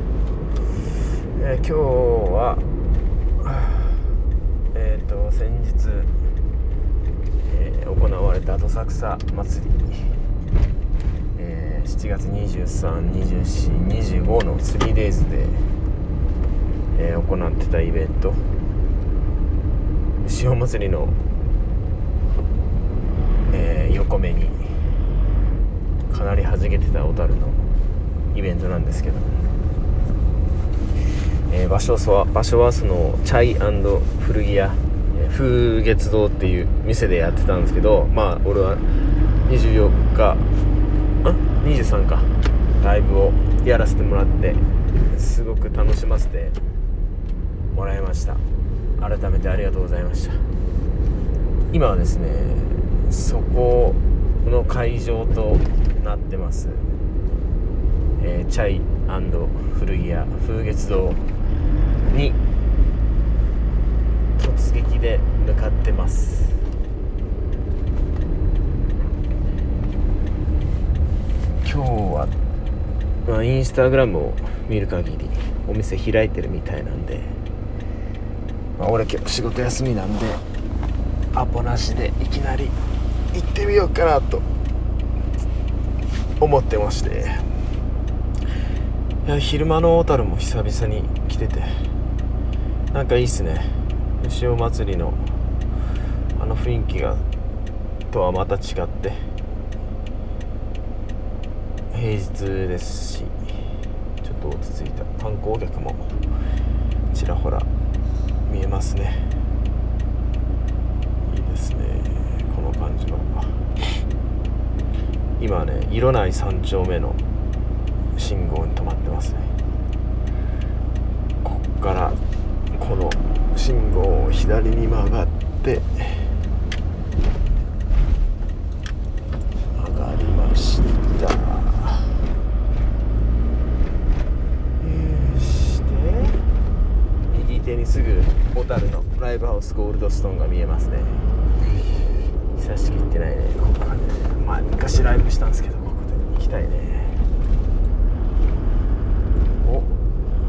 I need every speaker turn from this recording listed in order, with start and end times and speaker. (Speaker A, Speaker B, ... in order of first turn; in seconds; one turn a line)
Speaker A: 1.4-2.6
Speaker A: 3.4-4.0
Speaker A: 4.7-6.1
Speaker A: 7.5-10.1
Speaker A: 11.4-15.6
Speaker A: 16.9-18.4
Speaker A: 20.2-21.1
Speaker A: 23.5-24.7
Speaker A: 26.1-27.7
Speaker A: 28.3-29.3
Speaker A: 31.5-38.8
Speaker A: 39.5-40.4
Speaker A: 41.2-42.3
Speaker A: 42.8-46.6
Speaker A: 47.7-48.4
Speaker A: 49.0-50.4
Speaker A: 51.7-56.9
Speaker A: 58.2-61.2
Speaker A: 62.1-62.4
Speaker A: 64.4-66.6
Speaker A: 71.6-72.3
Speaker A: 73.2-77.3
Speaker A: 78.8-80.4
Speaker A: 81.3-82.8
Speaker A: 83.3-84.5
Speaker A: 86.4-87.4
Speaker A: 89.2-91.7
Speaker A: 92.9-93.7
Speaker A: 94.2-95.2
Speaker A: 96.3-97.2
Speaker A: 98.1-99.2
Speaker A: 101.9-103.3
Speaker A: 104.2-106.1
Speaker A: 107.1-107.7
Speaker A: 108.5-109.2
Speaker A: 111.3-113.7
Speaker A: 115.4-117.2
Speaker A: 118.2-119.5
Speaker A: 121.4-122.2
Speaker A: 122.7-126.3
Speaker A: 129.8-132.1
Speaker A: 134.8-136.4
Speaker A: 137.3-141.2
Speaker A: 142.6-147.2
Speaker A: 149.6-150.0